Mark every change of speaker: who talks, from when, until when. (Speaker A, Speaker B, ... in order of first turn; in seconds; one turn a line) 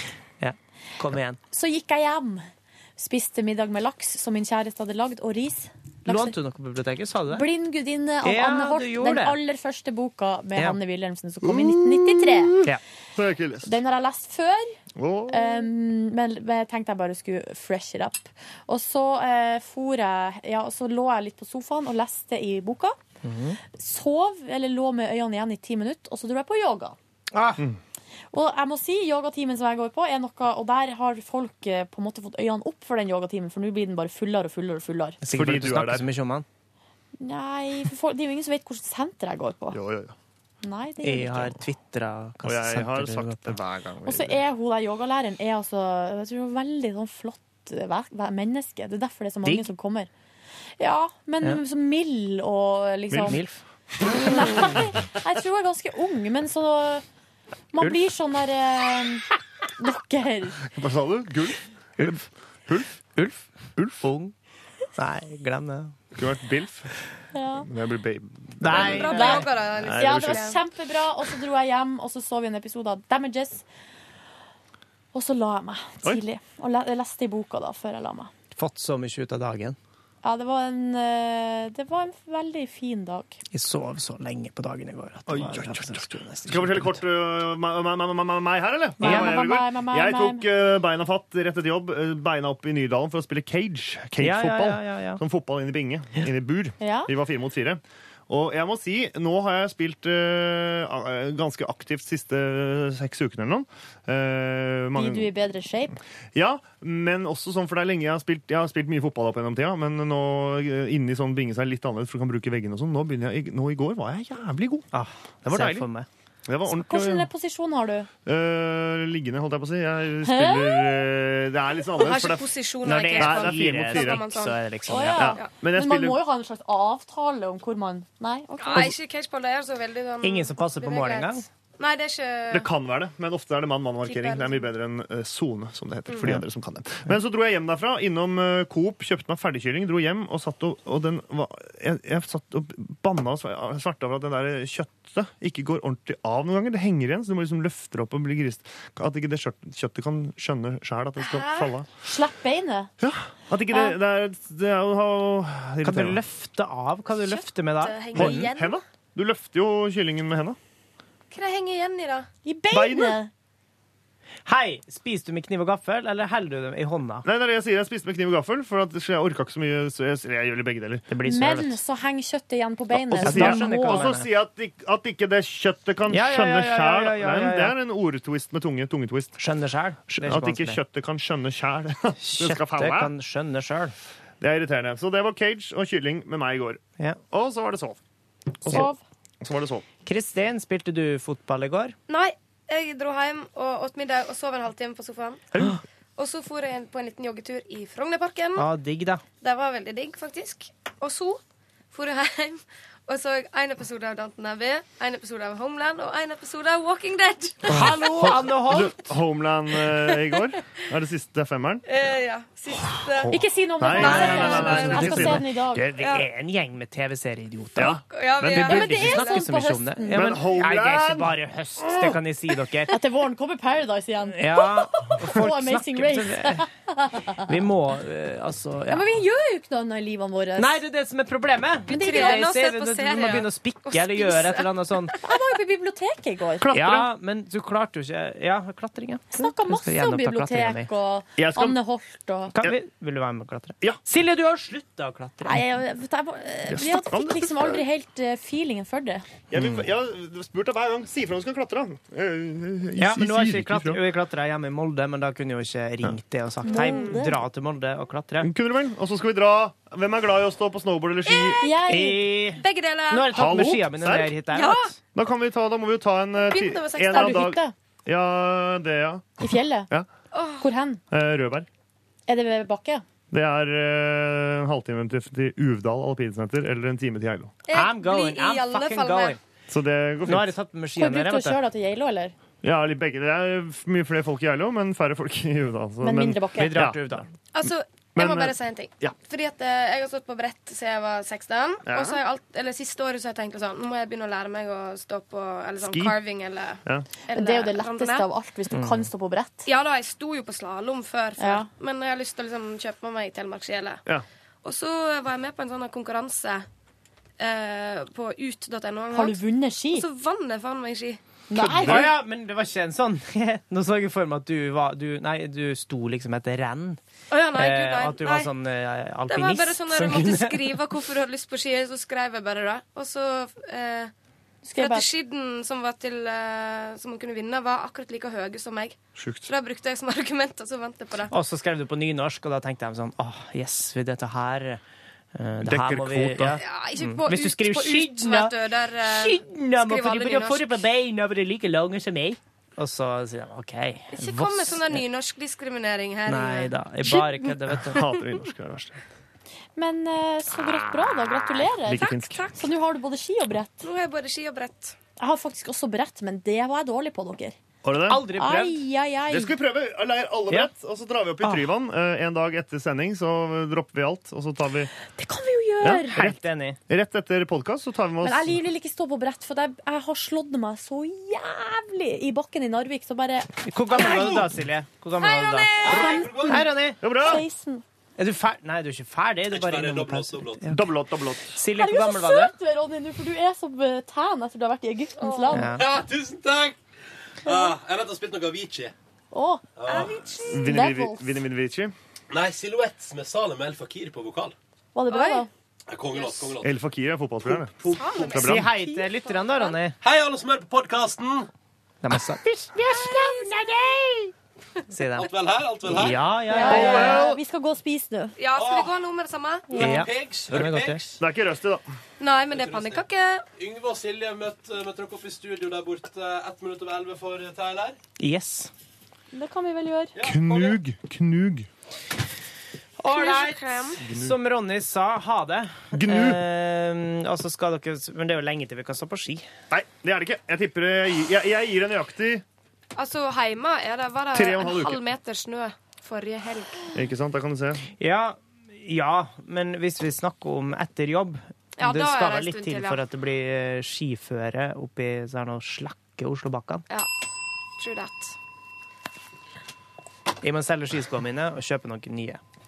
Speaker A: 0.4-1.4
Speaker B: 1.5-6.4
Speaker A: 6.1-7.5
Speaker B: 7.3-12.6
Speaker A: 8.2-9.4
Speaker C: 11.4-13.8
Speaker B: 13.7-23.0
Speaker C: 15.0-15.7
Speaker A: 23.2-23.6
Speaker B: 23.7-27.0
Speaker A: 27.3-27.6
Speaker B: 28.3-35.2
Speaker A: 35.2-36.5
Speaker C: 35.3-36.1
Speaker B: 37.2-39.8
Speaker C: 39.7-40.1
Speaker B: 40.6-41.6
Speaker A: 41.0-43.6
Speaker C: 42.4-44.4
Speaker B: 44.0-50.1
Speaker B: 50.8-53.4
Speaker C: 53.1-53.4
Speaker A: 53.2-53.6
Speaker B: 54.0-57.0
Speaker B: 57.7-59.2
Speaker B: 59.8-60.6
Speaker C: 60.6-62.9
Speaker A: 62.0-62.3
Speaker A: 63.1-64.3
Speaker C: 63.8-64.0
Speaker A: 65.0-66.0
Speaker C: 66.2-66.9
Speaker B: 67.3-67.7
Speaker C: 67.7-69.1
Speaker A: 68.6-69.5
Speaker D: 68.7-70.6
Speaker B: 69.1-73.6
Speaker C: 69.7-70.5
Speaker B: 75.1-78.3
Speaker A: 78.5-79.8
Speaker B: 80.2-83.4
Speaker A: 83.5-87.0
Speaker C: 85.3-105.3
Speaker B: 89.0-90.5
Speaker A: 89.0-89.4
Speaker A: 94.2-95.2
Speaker B: 96.8-97.1
Speaker B: 105.0-106.0
Speaker C: 106.3-114.9
Speaker A: 114.9-116.1
Speaker C: 115.4-115.9
Speaker C: 116.5-117.3
Speaker B: 116.8-118.1
Speaker C: 118.2-122.5
Speaker B: 120.2-121.0
Speaker D: 122.0-124.7
Speaker A: 122.8-125.4
Speaker C: 123.2-124.3
Speaker B: 124.9-128.9
Speaker C: 125.0-126.2
Speaker D: 128.6-132.7
Speaker A: 130.2-131.4
Speaker C: 132.5-151.9
Speaker D: 134.1-134.7
Speaker D: 136.1-136.4
Speaker D: 151.2-151.7
Speaker B: 152.0-152.9
Speaker C: 153.0-156.2
Speaker B: 153.7-154.0
Speaker A: 155.8-158.5
Speaker D: 157.2-158.8
Speaker C: 158.1-160.6
Speaker D: 161.3-162.3
Speaker B: 162.4-163.3
Speaker C: 162.7-163.2
Speaker A: 164.5-167.3
Speaker C: 167.2-171.1
Speaker A: 171.1-171.8
Speaker B: 171.2-174.1
Speaker C: 172.9-179.4
Speaker A: 173.2-174.3
Speaker A: 176.1-177.8
Speaker A: 179.4-180.8
Speaker C: 180.1-183.1
Speaker A: 182.2-184.0
Speaker C: 184.4-188.0
Speaker C: 188.6-188.9
Speaker B: 188.7-189.0
Speaker C: 189.4-189.8
Speaker A: 190.1-192.0
Speaker D: 192.1-195.4
Speaker C: 195.5-195.8
Speaker D: 196.2-198.7
Speaker A: 198.6-199.2
Speaker D: 199.4-207.7
Speaker A: 207.7-208.9
Speaker C: 207.7-211.8
Speaker D: 209.8-210.5
Speaker D: 211.9-213.3
Speaker C: 212.8-215.5
Speaker B: 213.3-215.8
Speaker D: 213.8-215.2
Speaker A: 214.5-222.9
Speaker D: 215.9-216.3
Speaker C: 217.8-219.2
Speaker D: 218.1-219.5
Speaker B: 218.6-220.3
Speaker C: 220.2-222.2
Speaker B: 222.9-227.5
Speaker A: 224.3-226.7
Speaker A: 227.4-229.1
Speaker B: 228.9-230.8
Speaker A: 230.6-235.1
Speaker D: 231.9-235.2
Speaker B: 231.9-232.5
Speaker B: 235.2-236.7
Speaker C: 236.6-237.1
Speaker A: 236.7-240.9
Speaker B: 239.3-242.5
Speaker C: 241.4-241.8
Speaker A: 242.5-245.7
Speaker B: 245.4-249.3
Speaker C: 246.7-247.8
Speaker C: 249.5-254.0
Speaker A: 253.0-258.5
Speaker D: 256.6-257.3
Speaker B: 256.7-257.4
Speaker C: 258.4-261.6
Speaker D: 261.2-261.9
Speaker B: 261.6-262.4
Speaker A: 261.9-264.9
Speaker D: 262.6-263.4
Speaker C: 263.3-264.4
Speaker D: 264.5-264.9
Speaker C: 265.1-270.1
Speaker D: 266.4-267.5
Speaker B: 267.1-267.7
Speaker B: 269.4-269.9
Speaker D: 270.3-270.7
Speaker B: 270.6-271.0
Speaker C: 271.1-271.7
Speaker B: 272.3-273.0
Speaker C: 273.3-277.5
Speaker D: 277.6-279.4
Speaker A: 277.7-279.3
Speaker E: 277.9-278.3
Speaker C: 279.7-280.5
Speaker A: 280.3-281.6
Speaker B: 281.0-282.3
Speaker C: 282.6-289.2
Speaker B: 286.0-286.9
Speaker A: 286.6-287.3
Speaker D: 287.5-298.3
Speaker C: 291.9-292.2
Speaker C: 295.8-296.2
Speaker B: 297.3-299.7
Speaker A: 298.7-299.1
Speaker D: 299.6-304.0
Speaker B: 301.4-301.7
Speaker D: 304.6-306.6
Speaker D: 307.4-311.2
Speaker B: 309.1-310.1
Speaker B: 311.5-312.1
Speaker C: 311.6-312.2
Speaker A: 311.8-317.0
Speaker D: 317.3-318.5
Speaker A: 317.5-320.8
Speaker D: 319.3-324.1
Speaker B: 324.6-325.1
Speaker D: 324.8-331.3
Speaker C: 329.1-329.5
Speaker A: 331.3-334.8
Speaker A: 335.4-337.6
Speaker C: 335.6-336.6
Speaker D: 336.6-340.8
Speaker E: 337.4-338.5
Speaker E: 339.1-342.4
Speaker A: 342.8-345.0
Speaker D: 344.1-346.8
Speaker A: 346.3-348.0
Speaker C: 347.9-349.0
Speaker B: 349.8-353.9
Speaker C: 351.9-352.4
Speaker D: 353.8-355.0
Speaker B: 355.2-357.6
Speaker C: 357.8-358.3
Speaker A: 358.1-358.8
Speaker B: 358.3-359.6
Speaker C: 359.3-364.9
Speaker B: 365.1-366.2
Speaker C: 365.8-368.6
Speaker A: 366.1-366.8
Speaker B: 368.2-374.4
Speaker A: 373.6-375.8
Speaker D: 375.1-376.4
Speaker B: 375.8-377.8
Speaker F: 375.8-376.6
Speaker A: 376.4-377.0
Speaker C: 377.0-377.4
Speaker A: 378.2-380.9
Speaker F: 379.5-380.6
Speaker C: 380.7-381.6
Speaker A: 381.5-382.5
Speaker B: 381.7-385.8
Speaker D: 385.2-385.8
Speaker A: 385.5-385.9
Speaker F: 385.7-386.8
Speaker F: 387.4-388.9
Speaker B: 389.3-391.4
Speaker F: 389.8-390.4
Speaker D: 389.9-390.8
Speaker C: 390.5-391.9
Speaker F: 392.3-394.5
Speaker B: 394.9-395.5
Speaker D: 395.1-395.5
Speaker F: 395.9-396.7
Speaker D: 396.1-396.6
Speaker C: 396.6-398.7
Speaker F: 397.4-398.3
Speaker D: 397.9-399.8
Speaker A: 398.4-400.0
Speaker F: 400.0-401.5
Speaker A: 402.0-402.5
Speaker E: 402.5-404.3
Speaker D: 402.9-403.5
Speaker A: 404.9-405.3
Speaker F: 405.2-407.2
Speaker A: 405.9-407.3
Speaker D: 406.5-407.3
Speaker B: 406.5-408.4
Speaker D: 408.4-409.8
Speaker F: 408.5-409.0
Speaker B: 409.7-410.0
Speaker F: 409.7-411.2
Speaker A: 409.8-411.0
Speaker C: 411.2-411.8
Speaker D: 412.2-413.5
Speaker F: 412.5-413.0
Speaker F: 413.6-418.0
Speaker A: 418.2-418.7
Speaker B: 419.3-420.1
Speaker F: 420.1-420.8
Speaker C: 420.2-421.7
Speaker A: 423.0-429.5
Speaker D: 423.1-424.0
Speaker C: 424.0-424.4
Speaker C: 425.9-426.4
Speaker C: 429.7-432.4
Speaker D: 432.9-436.9
Speaker C: 434.3-435.0
Speaker C: 436.9-437.9
Speaker A: 438.0-446.9
Speaker D: 441.8-443.0
Speaker D: 447.8-448.4
Speaker A: 450.4-452.4